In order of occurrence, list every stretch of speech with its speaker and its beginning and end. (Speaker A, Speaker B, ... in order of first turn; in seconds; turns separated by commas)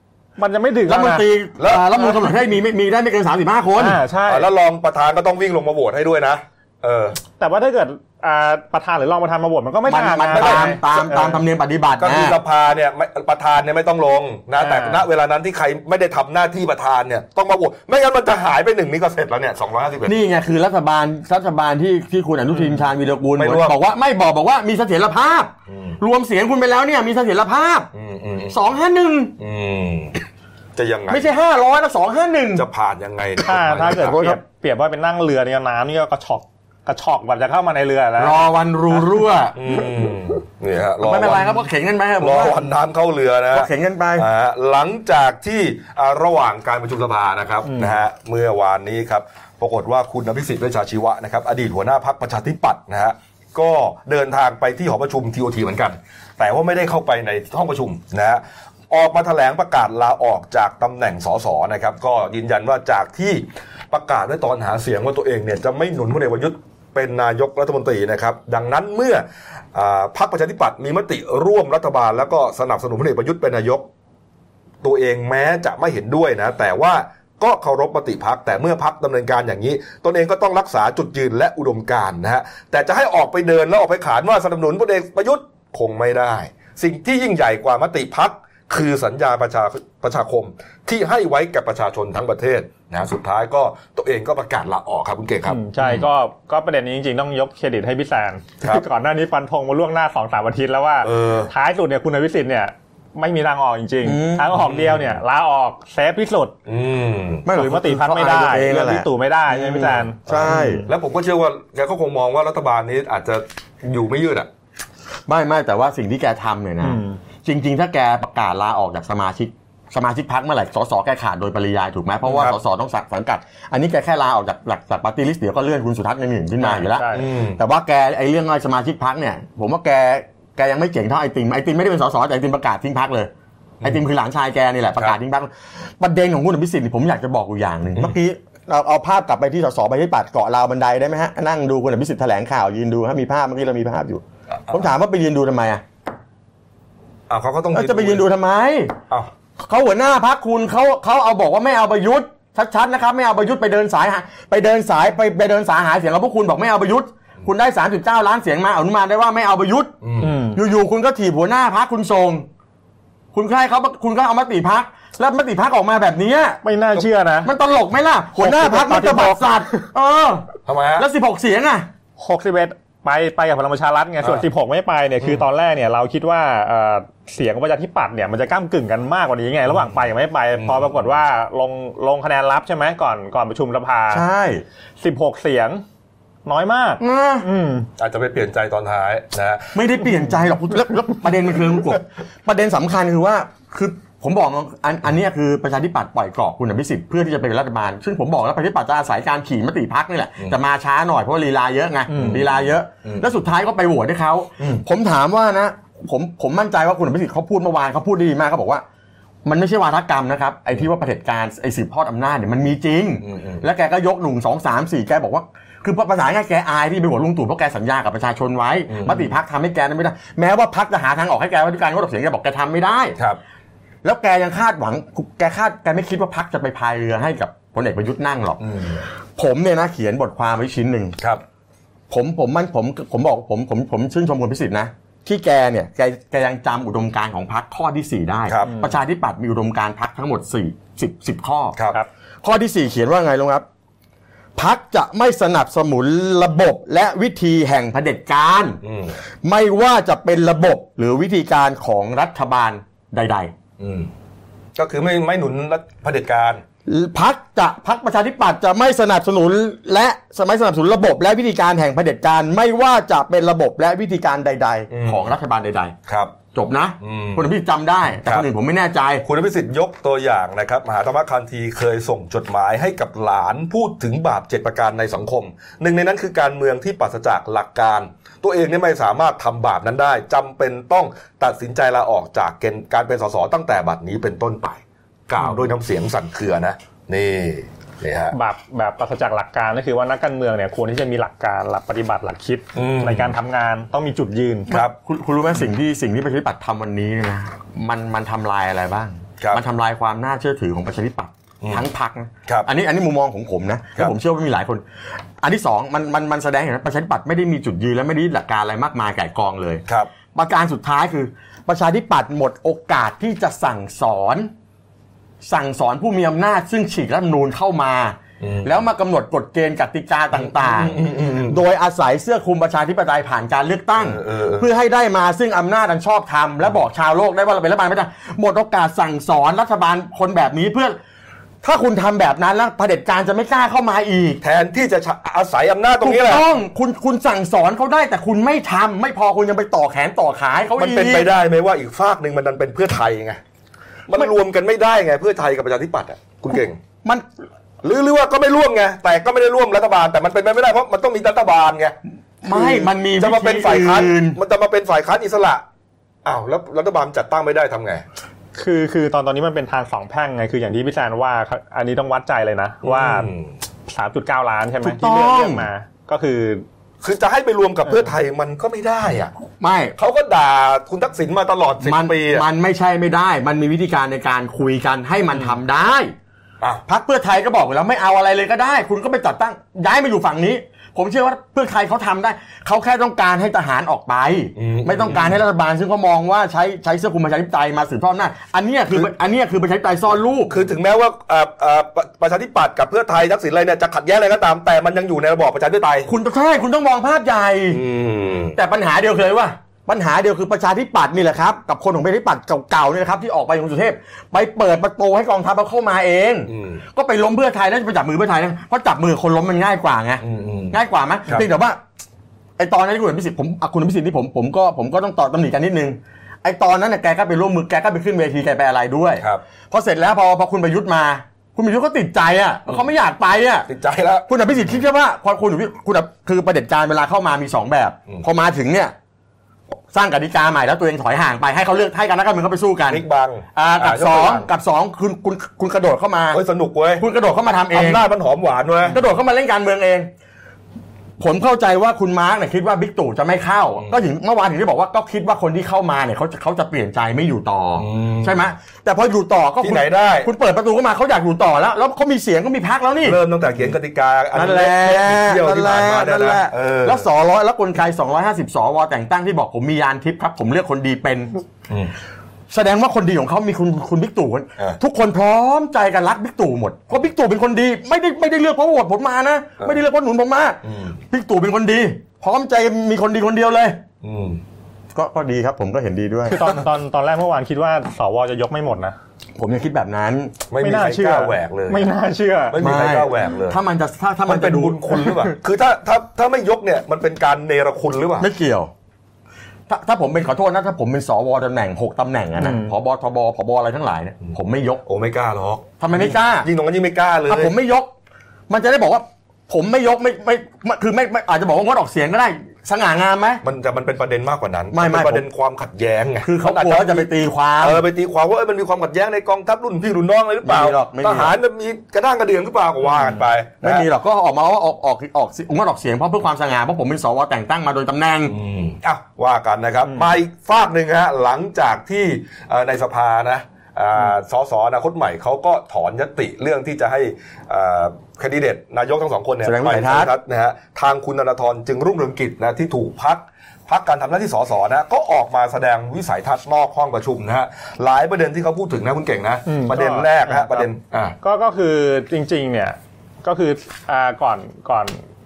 Speaker A: 0.4-1.3, Speaker B: 0.9-4.0, Speaker C: 1.6-2.1, Speaker A: 3.8-4.5, Speaker C: 4.3-7.2, Speaker A: 7.4-11.4, Speaker B: 9.9-12.4, Speaker C: 10.3-11.2, Speaker C: 12.0-20.1, Speaker A: 14.6-15.0, Speaker B: 20.1-27.9, Speaker C: 23.4-23.8, Speaker C: 25.7-26.0, Speaker C: 27.9-28.6, Speaker B: 28.5-29.3, Speaker C: 29.4-30.2, Speaker C: 30.8-31.3, Speaker B: 31.1-32.6, Speaker C: 32.5-34.2, Speaker A: 33.4-39.0, Speaker B: 33.9-34.4, Speaker B: 38.2-40.1, Speaker C: 39.6-41.5, Speaker B: 41.0-42.7, Speaker C: 42.2-73.9, Speaker B: 43.5-44.3, Speaker A: 47.7-48.0, Speaker C: 74.8-96.1, Speaker A: 95.5-106.5, Speaker C: 101.0-101.5, Speaker B: 104.0-104.5, Speaker C: 104.5-105.2, Speaker C: 106.7-107.5, Speaker B: 107.5-110.9, Speaker A: 107.5-110.9, Speaker C: 110.3-114.5, Speaker B: 115.3-133.3, Speaker A: 116.8-117.2, Speaker C: 122.3-122.6, Speaker A: 126.6-127.3, Speaker C: 127.1-127.6, Speaker B: 133.8-145.8, Speaker C: 147.3-148.3, Speaker B: 147.7-148.9, Speaker B: 149.6-162.5, Speaker C: 160.0-160.4, Speaker A: 160.2-160.6, Speaker B: 163.3-166.6, Speaker A: 166.6-167.5, Speaker B: 167.4-171.9, Speaker A: 168.4-169.8, Speaker C: 170.7-171.1, Speaker A: 172.2-184.2, Speaker C: 180.6-180.9, Speaker B: 184.1-184.6, Speaker A: 185.0-185.8, Speaker A: 186.5-187.9, Speaker B: 187.0-187.5, Speaker C: 188.0-189.8, Speaker B: 189.8-208.8, Speaker A: 202.1-202.5, Speaker C: 202.1-203.3, Speaker B: 209.4-223.2, Speaker C: 213.3-213.6, Speaker C: 218.9-219.3, Speaker B: 224.0-228.6, Speaker C: 228.6-229.0, Speaker B: 229.4-231.2, Speaker B: 232.1-241.8, Speaker C: 241.8-242.0, Speaker B: 242.4-243.7, Speaker B: 244.6-248.8, Speaker C: 248.8-249.1, Speaker B: 249.4-253.5, Speaker C: 253.8-254.1, Speaker C: 254.8-256.6, Speaker B: 256.9-265.9, Speaker C: 264.9-265.3, Speaker C: 266.1-266.3, Speaker B: 266.5-269.2, Speaker C: 267.0-267.5, Speaker C: 269.2-288.4, Speaker A: 288.3-294.8, Speaker C: 292.8-293.3, Speaker C: 294.7-294.9, Speaker B: 294.7-304.8, Speaker B: 305.4-309.8, Speaker B: 310.3-314.5, Speaker B: 315.4-331.0, Speaker C: 318.4-318.8, Speaker C: 320.4-321.6, Speaker C: 324.0-324.7, Speaker B: 331.6-334.4, Speaker C: 334.4-336.5, Speaker B: 336.0-341.3, Speaker C: 340.8-343.4, Speaker C: 344.1-346.8, Speaker C: 347.8-351.9, Speaker B: 352.4-354.4, Speaker C: 352.5-355.6, Speaker C: 356.2-358.0, Speaker A: 358.6-363.3, Speaker C: 362.8-363.5, Speaker A: 363.9-366.6, Speaker B: 364.8-365.7, Speaker C: 367.0-369.3, Speaker B: 369.6-369.9, Speaker C: 370.0-372.4, Speaker B: 371.8-376.1, Speaker B: 376.9-390.5, Speaker C: 384.6-385.4, Speaker C: 390.5-396.1, Speaker B: 396.1-397.8, Speaker C: 397.7-398.6, Speaker B: 398.6-411.8, Speaker C: 406.5-406.8, Speaker C: 410.2-411.5, Speaker B: 412.6-423.7, Speaker C: 423.7-424.3, Speaker B: 424.3-428.9, Speaker B: 429.9-433.0, Speaker C: 432.9-434.5, Speaker B: 433.6-436.4, Speaker C: 436.3-437.1, Speaker B: 437.0-438.0, Speaker C: 437.7-439.0, Speaker B: 438.9-440.1, Speaker B: 441.2-453.2, Speaker C: 447.8-448.5, Speaker C: 449.6-450.3, Speaker C: 453.0-457.1, Speaker B: 454.3-461.4, Speaker B: 462.5-473.8, Speaker C: 470.6-471.0, Speaker C: 474.0-474.4, Speaker B: 474.9-476.4, Speaker A: 476.3-479.0, Speaker B: 479.4-480.3, Speaker C: 480.5-481.9, Speaker A: 480.6-482.6, Speaker C: 482.5-483.6, Speaker B: 482.6-485.3, Speaker C: 484.3-488.3, Speaker B: 488.2-488.7, Speaker B: 489.7-494.8, Speaker A: 492.4-492.7, Speaker C: 494.9-497.5, Speaker B: 495.8-496.5, Speaker B: 497.3-497.9, Speaker B: 498.5-503.4, Speaker C: 503.4-507.1, Speaker B: 504.7-505.2, Speaker B: 506.2-507.8, Speaker C: 507.6-513.9, Speaker B: 510.4-511.3, Speaker B: 513.6-518.4, Speaker C: 518.3-541.2, Speaker B: 529.4-530.1, Speaker A: 539.5-540.7, Speaker A: 541.2-545.0